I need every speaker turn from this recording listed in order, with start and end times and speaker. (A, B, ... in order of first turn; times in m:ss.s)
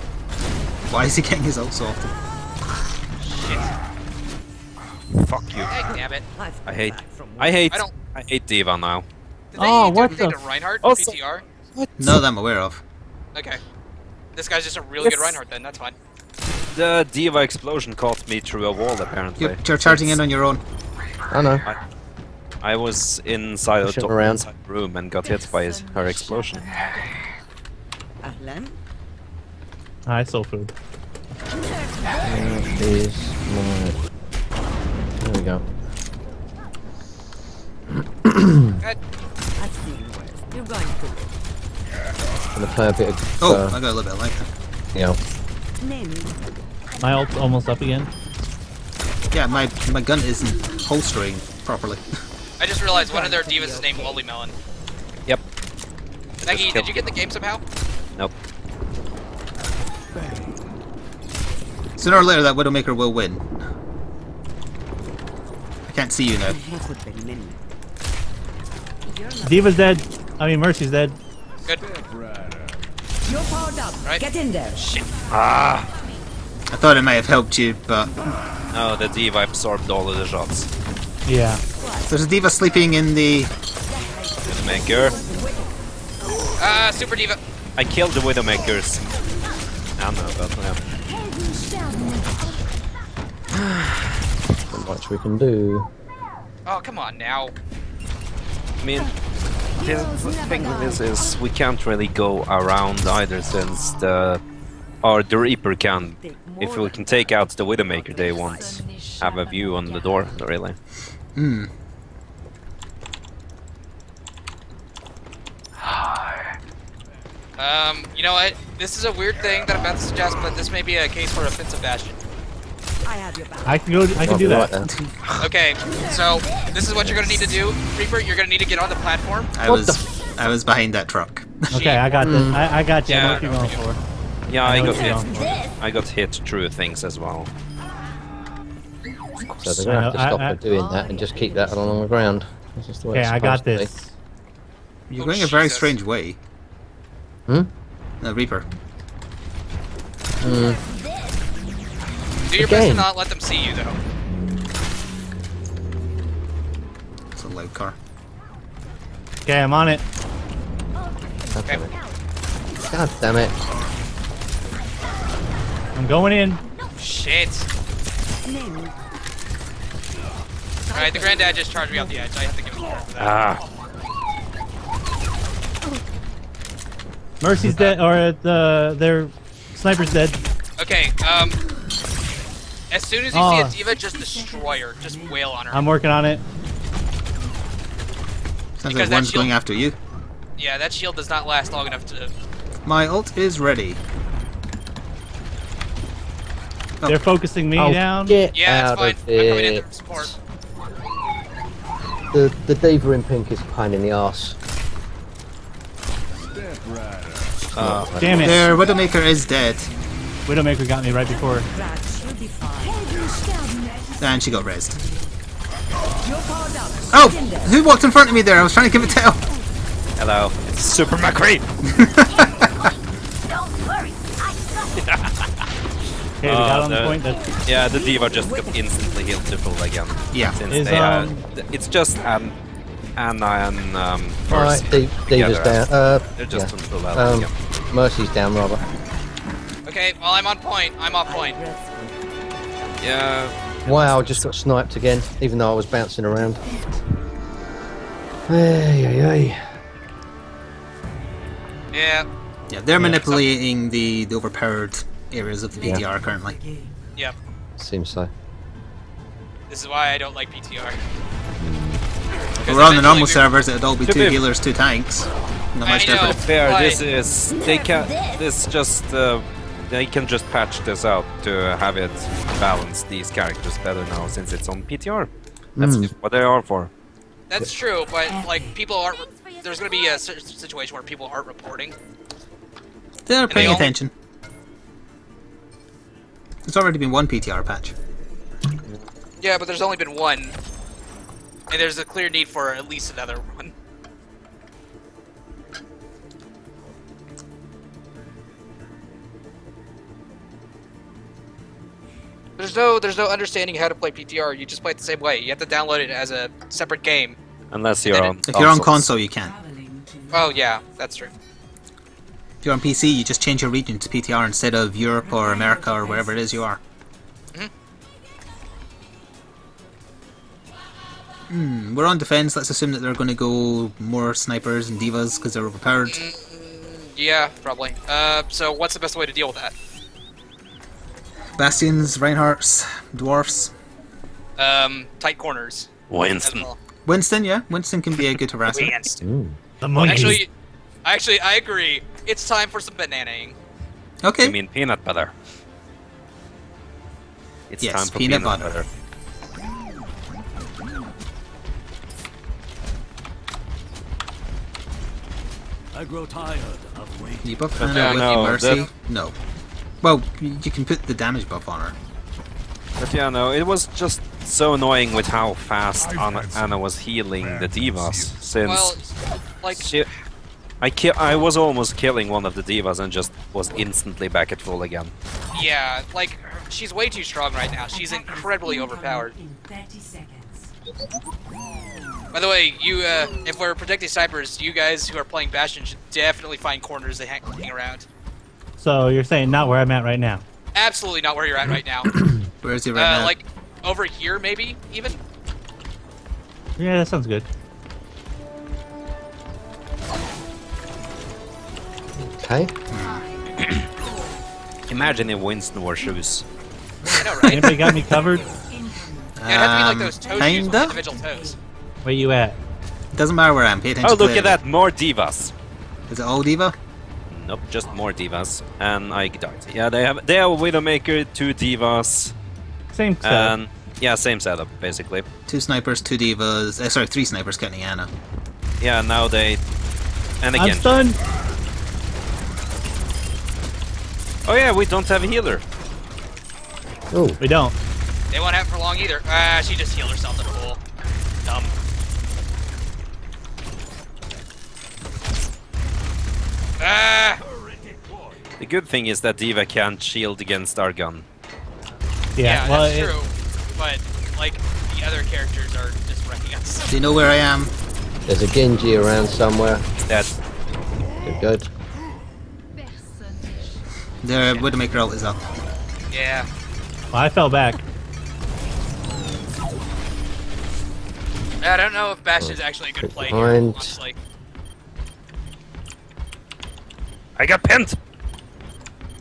0:00.9-0:02.1 A
0:03.2-0:03.7 B
0:05.1-0:05.7 C
0:05.7-0:06.2 B
0:06.3-0:07.8 D
0:06.6-0:09.0 C
0:09.5-0:11.4 B
0:09.6-0:10.4 E
0:10.8-0:11.1 C
0:11.7-0:12.2 F
0:12.0-0:12.8 A
0:13.3-0:13.6 B
0:14.4-0:16.0 B
0:15.0-0:15.4 F
0:16.7-0:19.6 C
0:19.4-0:20.6 A
0:19.8-0:20.2 F
0:21.3-0:21.7 F
0:22.6-0:26.7 C
0:23.8-0:24.4 F
0:25.4-0:27.1 D
0:28.2-0:28.8 D
0:30.0-0:30.7 E
0:31.7-0:32.4 D
0:32.2-0:34.0 F
0:35.2-0:35.6 F
0:38.2-0:38.8 F
0:39.6-0:41.3 D
0:42.5-0:43.8 F
0:43.4-0:44.5 A
0:44.9-0:45.2 F
0:45.8-0:46.3 D
0:47.0-0:48.1 E
0:49.3-0:52.0 A
0:52.6-0:54.5 B
0:52.9-0:54.2 D
0:56.4-0:57.1 C
0:56.4-0:57.6 B
1:00.2-1:00.5 G
1:02.0-1:03.4 A
1:05.9-1:06.6 A
1:06.4-1:07.6 D
1:09.1-1:10.0 D
1:09.4-1:11.2 E
1:11.6-1:12.9 G
1:13.2-1:14.9 D
1:14.0-1:15.0 B
1:15.3-1:15.9 C
1:16.7-1:18.2 A
1:18.7-1:20.7 C
1:21.2-1:21.6 E
1:21.8-1:22.1 D
1:22.1-1:23.5 A
1:23.8-1:25.8 D
1:24.4-1:25.2 C
1:26.6-1:27.4 B
1:27.8-1:29.0 C
1:30.0-1:30.8 C
1:31.0-1:32.6 D
1:34.7-1:35.9 F
1:36.6-1:37.5 B
1:38.8-1:39.1 C
1:39.8-1:41.3 D
1:39.8-1:44.4 C
1:45.0-1:50.8 C
1:46.2-1:50.3 D
1:51.3-1:51.7 A
1:57.6-2:02.2 B
2:03.0-2:04.2 D
2:03.6-2:04.8 E
2:04.2-2:04.9 F
2:05.4-2:09.5 B
2:09.5-2:12.0 A
2:09.6-2:10.0 F
2:11.7-2:14.0 E
2:11.7-2:12.0 B
2:12.2-2:12.6 F
2:13.1-2:13.4 C
2:13.1-2:13.8 B
2:14.5-2:17.5 C
2:14.6-2:15.3 E
2:14.8-2:15.4 B
2:19.6-2:23.9 F
2:19.6-2:20.6 E
2:20.7-2:22.1 D
2:23.1-2:24.1 E
2:25.1-2:26.4 A
2:25.2-2:25.9 B
2:28.2-2:28.7 A
2:30.4-2:30.8 F
2:32.5-2:34.0 B
2:32.5-2:33.1 F
2:37.3-2:37.9 A
2:39.4-2:40.0 E
2:41.5-2:42.0 F
2:42.8-2:43.5 F
2:45.9-2:46.6 E
2:47.0-2:47.7 B
2:48.4-2:48.9 D
2:50.8-2:52.1 D
2:50.9-2:53.4 B
2:53.2-2:53.6 C
2:57.4-3:00.4 E
3:00.8-3:01.6 B
3:02.9-3:05.8 B
3:03.3-3:03.8 E
3:04.0-3:05.3 D
3:05.7-3:06.4 E
3:08.8-3:10.0 A
3:08.8-3:09.5 B
3:10.6-3:12.3 B
3:12.8-3:14.0 A
3:17.0-3:17.2 A
3:17.0-3:18.4 E
3:17.8-3:20.3 F
3:18.5-3:20.3 B
3:22.3-3:24.6 F
3:26.4-3:27.9 G
3:27.7-3:28.7 F
3:27.8-3:28.1 C
3:28.2-3:28.6 E
3:28.4-3:29.9 A
3:30.5-3:31.7 E
3:31.7-3:34.2 D
3:34.2-3:35.0 A
3:34.9-3:35.2 D
3:36.2-3:37.8 D
3:37.1-3:39.4 A
3:40.2-3:41.7 C
3:41.9-3:42.7 A
3:45.0-3:45.5 C
3:46.4-3:47.5 E
3:46.4-3:52.6 C
3:47.7-3:49.5 D
3:50.3-3:50.6 A
3:50.7-3:51.4 E
3:53.2-3:57.5 C
3:54.5-3:58.8 F
3:59.8-4:01.6 B
4:01.2-4:03.0 D
4:03.0-4:04.5 C
4:03.8-4:06.6 F
4:08.5-4:09.7 F
4:11.9-4:12.3 B
4:12.7-4:16.6 A
4:13.1-4:13.4 B
4:15.8-4:17.0 D
4:15.8-4:16.0 F
4:17.8-4:18.3 F
4:19.7-4:21.0 B
4:21.6-4:22.0 F
4:22.6-4:23.5 B
4:22.6-4:26.4 A
4:24.0-4:24.4 C
4:25.8-4:27.0 B
4:26.3-4:36.9 C
4:35.8-4:36.1 F
4:37.5-4:41.9 B
4:38.4-4:38.7 D
4:43.2-4:44.1 A
4:43.5-4:43.9 B
4:46.6-4:47.9 A
4:49.4-4:50.6 B
4:51.7-4:53.7 B
5:02.6-5:07.4 B
5:07.7-5:09.1 C
5:08.0-5:08.4 B
5:08.4-5:09.6 A
5:09.5-5:10.7 D
5:10.3-5:11.3 B
5:12.6-5:16.8 A
5:15.4-5:16.4 D
5:21.5-5:26.2 A
5:26.0-5:29.7 B
5:31.6-5:33.7 A
5:34.6-5:36.8 B
5:36.1-5:36.7 C
5:37.0-5:39.0 A
5:38.7-5:39.2 B
5:39.2-5:39.6 F
5:39.8-5:40.4 E
5:40.0-5:40.5 B
5:41.0-5:43.5 B
5:44.2-5:44.6 A
5:44.4-5:45.3 C
5:47.7-5:48.9 C
5:47.8-5:48.8 A
5:55.9-5:57.6 G
5:57.4-5:59.3 A
5:57.8-5:58.8 C
5:57.8-5:58.9 B
6:00.0-6:02.0 A
6:03.0-6:09.0 C
6:06.0-6:06.7 G
6:07.4-6:08.4 G
6:08.6-6:09.1 B
6:09.6-6:09.9 B
6:09.7-6:10.1 C
6:10.8-6:15.1 C
6:15.5-6:19.3 B
6:17.9-6:20.7 D
6:22.3-6:28.0 B
6:28.8-6:30.4 E
6:30.7-6:32.1 B
6:32.1-6:32.4 F
6:32.6-6:33.3 A
6:32.9-6:35.2 B
6:36.8-6:37.5 E
6:42.2-6:42.7 F
6:42.9-6:43.2 A
6:43.0-6:43.5 D
6:44.9-6:46.4 C
6:47.1-6:49.4 D
6:47.2-6:47.6 A
6:47.2-6:47.8 B
6:47.4-6:48.4 E
6:49.4-6:51.0 A
6:49.5-6:51.6 B
6:50.1-6:51.6 D
6:52.0-6:52.6 E
6:53.1-6:54.6 A
6:54.0-6:55.5 C
6:56.1-6:56.7 A
6:57.3-7:02.3 C
7:02.9-7:03.5 E
7:03.2-7:05.2 C
7:05.5-7:08.1 A
7:08.8-7:09.6 C
7:10.4-7:11.0 C
7:10.6-7:11.2 E
7:14.4-7:15.6 C
7:17.1-7:17.4 F
7:17.4-7:17.8 E
7:18.3-7:20.8 B
7:21.4-7:21.7 B
7:26.8-7:27.4 B
7:27.4-7:28.4 G
7:28.6-7:31.2 C
7:32.4-7:33.1 E
7:32.4-7:36.9 B
7:36.9-7:37.7 A
7:38.2-7:39.9 F
7:40.0-7:40.4 C
7:41.2-7:41.7 F
7:43.4-7:43.7 D
7:44.2-7:45.4 A
7:46.1-7:46.5 B
7:47.1-7:47.8 E
7:51.6-7:54.2 B
7:52.4-7:54.0 F
7:57.4-7:58.0 C